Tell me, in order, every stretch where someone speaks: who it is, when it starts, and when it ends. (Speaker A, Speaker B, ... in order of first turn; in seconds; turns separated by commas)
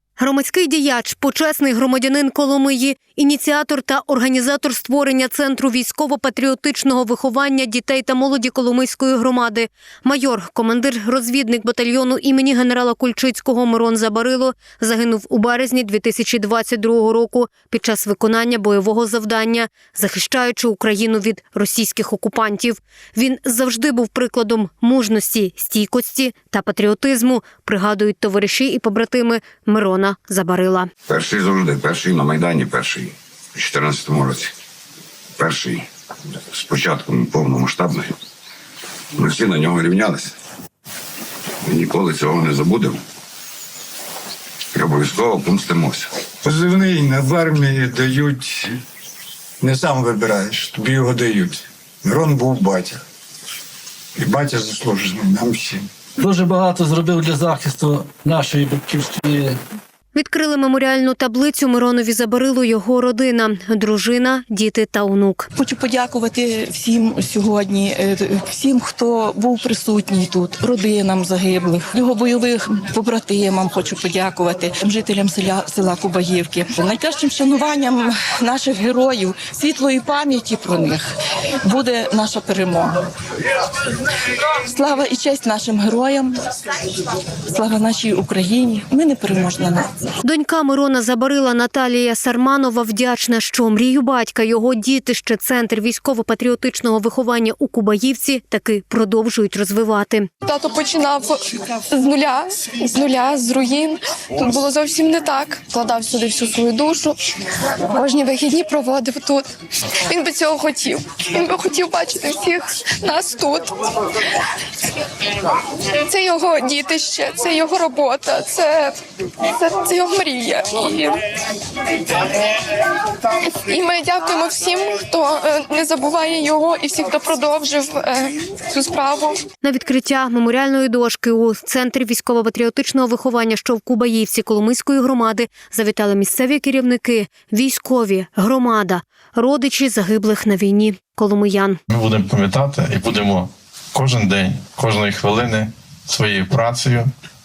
Speaker A: 0.2-30.9, Speaker B: 31.1-34.5, Speaker B: 35.4-35.9, Speaker B: 36.5-38.1, Speaker B: 39.1-40.3, Speaker B: 41.6-43.0, Speaker B: 44.7-46.1, Speaker C: 46.4-48.8, Speaker C: 49.6-53.0, Speaker C: 54.2-55.9, Speaker D: 56.2-59.5, Speaker A: 60.1-65.5, Speaker E: 65.6-83.0, Speaker E: 84.5-86.4, Speaker E: 87.5-89.9, Speaker A: 90.2-100.3, Speaker F: 100.5-107.2, Speaker F: 107.9-109.5, Speaker F: 110.1-113.7, Speaker F: 116.0-118.9, Speaker F: 119.5-121.2, Speaker F: 123.5-129.4, Speaker A: 129.6-141.8, Speaker G: 141.9-147.1